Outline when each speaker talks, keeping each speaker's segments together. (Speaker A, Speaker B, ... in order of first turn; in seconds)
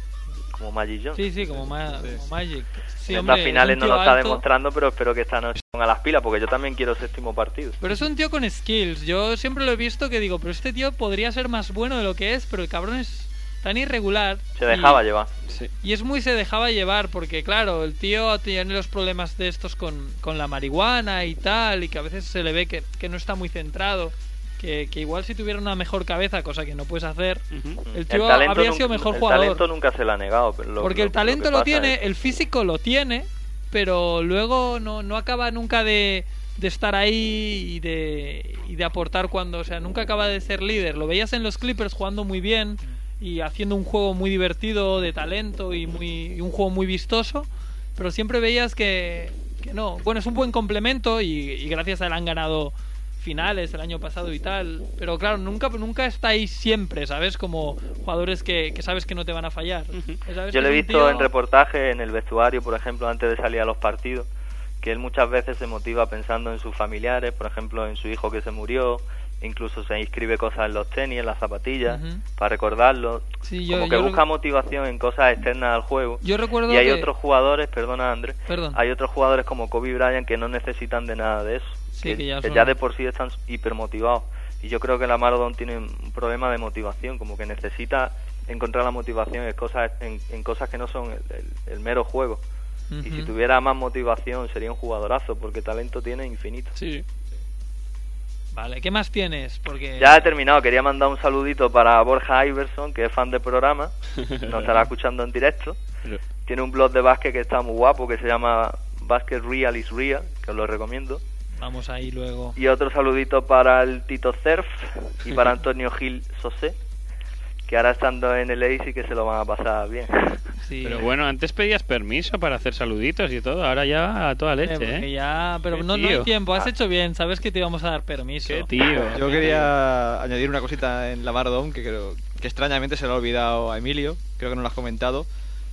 Speaker A: 0.6-1.3, 3.1-7.8, 14.6-15.3, 27.8-32.0, 60.5-64.3, 64.8-92.4, 93.0-96.7, 100.0-103.9, 104.5-105.8, 106.5-111.2, 112.6-116.8, 117.7-120.4
Speaker B: 1.1-4.4, 7.8-15.0, 15.8-29.7, 30.8-61.3, 71.9-72.2, 73.5-74.2, 76.2-77.1, 78.5-78.8, 82.0-82.8, 92.9-93.3, 98.5-100.3, 111.6-112.6, 120.6-121.1, 124.6-129.5
Speaker C: 27.5-27.8, 59.9-60.2, 96.8-97.0, 104.2-104.8, 120.8-125.1, 125.7-126.3, 128.5-129.7
Speaker D: 129.1-135.3